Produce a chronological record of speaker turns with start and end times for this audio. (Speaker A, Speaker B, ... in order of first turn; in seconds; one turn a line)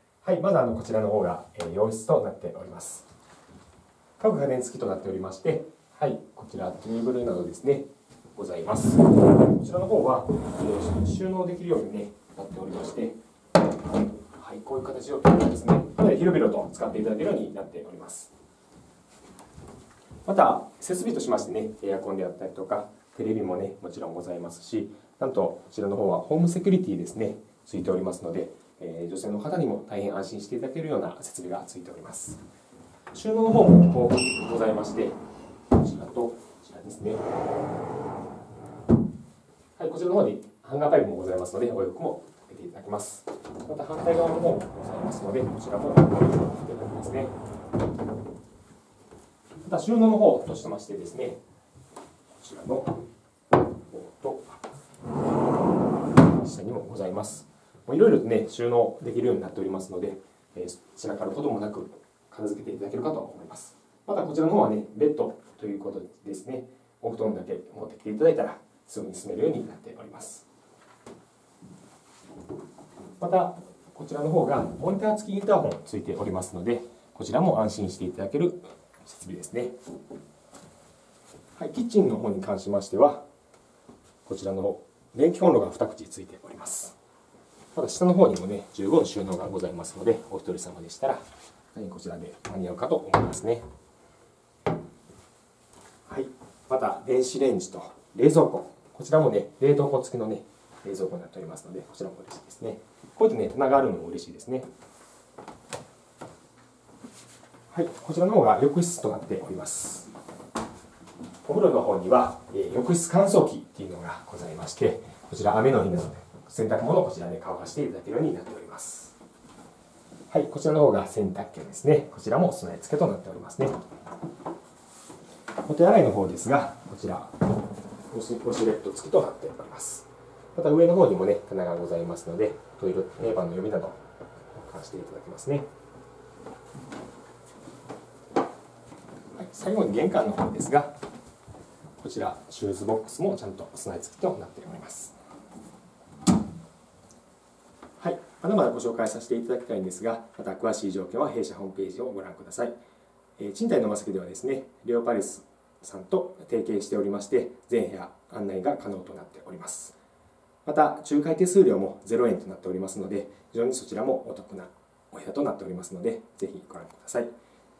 Speaker A: 0.2-3.1
Speaker A: 4.2-13.2
Speaker A: 14.3-18.3
Speaker A: 20.2-32.4
Speaker A: 33.1-35.1
Speaker A: 35.7-37.2
Speaker A: 39.8-47.3
Speaker A: 49.6-51.4
Speaker A: 52.3-53.0
Speaker A: 53.9-54.6
Speaker A: 56.3-70.4
Speaker A: 73.2-79.7
Speaker A: 81.6-83.2
Speaker A: 84.2-87.0
Speaker A: 87.7-91.2
Speaker A: 91.7-93.6
Speaker A: 96.1-104.7
Speaker A: 107.7-110.1
Speaker A: 111.4-119.1
Speaker A: 120.3-123.8
Speaker A: 125.6-127.3
Speaker A: 128.1-134.0
Speaker A: 134.5-135.7
Speaker A: 139.3-140.9
Speaker A: 142.0-145.2
Speaker A: 148.0-152.7
Speaker A: 153.4-159.9
Speaker A: 160.6-167.3